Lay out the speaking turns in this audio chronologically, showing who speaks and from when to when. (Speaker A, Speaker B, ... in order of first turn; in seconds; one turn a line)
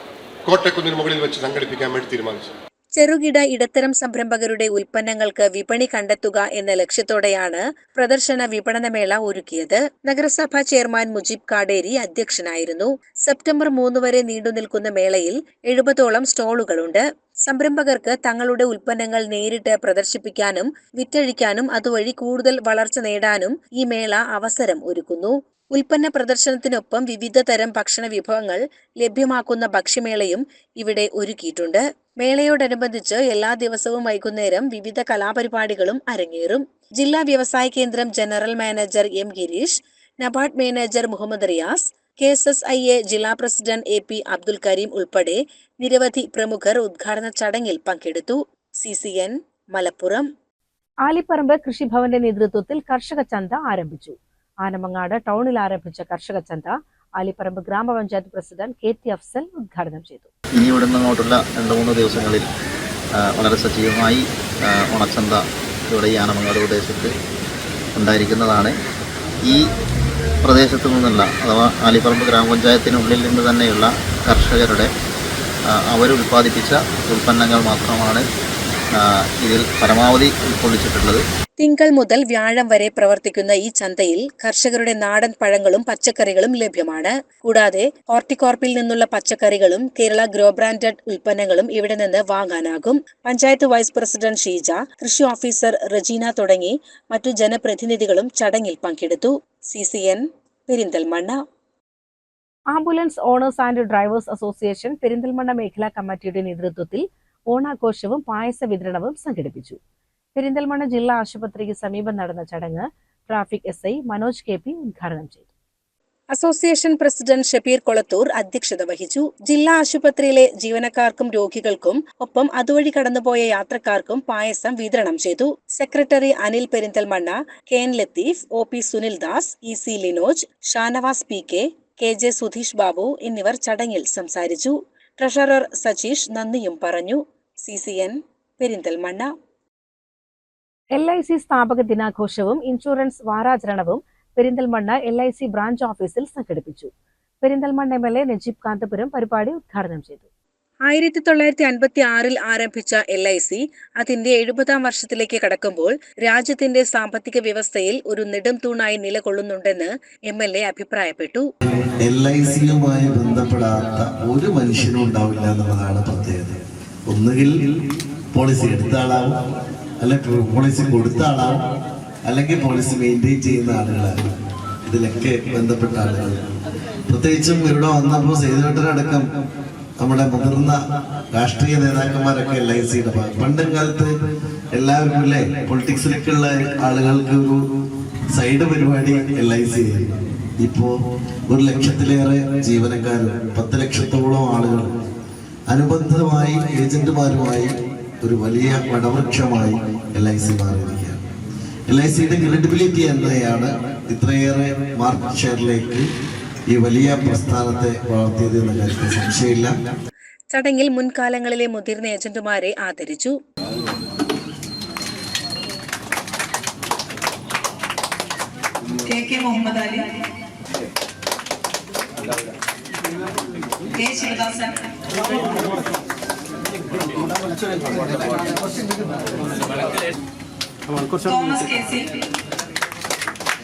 Speaker A: 0.5-2.5
Speaker B: 2.9-50.3
Speaker C: 51.0-60.3
Speaker D: 60.5-62.4
Speaker D: 63.2-67.1
Speaker D: 67.9-68.7
Speaker D: 70.4-74.9
Speaker D: 75.7-78.2
Speaker D: 78.9-81.2
Speaker B: 81.6-101.4
Speaker C: 102.7-109.8
Speaker C: 110.3-115.5
Speaker B: 116.3-139.3
Speaker C: 140.9-146.9
Speaker C: 147.4-150.2
Speaker B: 150.8-161.5
Speaker E: 162.0-166.6
Speaker E: 167.1-167.5
Speaker E: 168.3-169.4
Speaker E: 170.0-171.6
Speaker E: 172.3-174.1
Speaker E: 174.9-176.4
Speaker E: 177.1-179.2
Speaker E: 180.0-180.8
Speaker E: 181.3-184.1
Speaker E: 184.7-187.6
Speaker E: 188.3-190.1
Speaker E: 190.6-190.9
Speaker E: 191.5-194.9
Speaker E: 195.7-201.2
Speaker E: 201.9-206.0
Speaker E: 206.7-209.7
Speaker B: 210.5-213.3
Speaker F: 219.1-220.1
Speaker F: 223.9-224.8
Speaker F: 231.1-232.2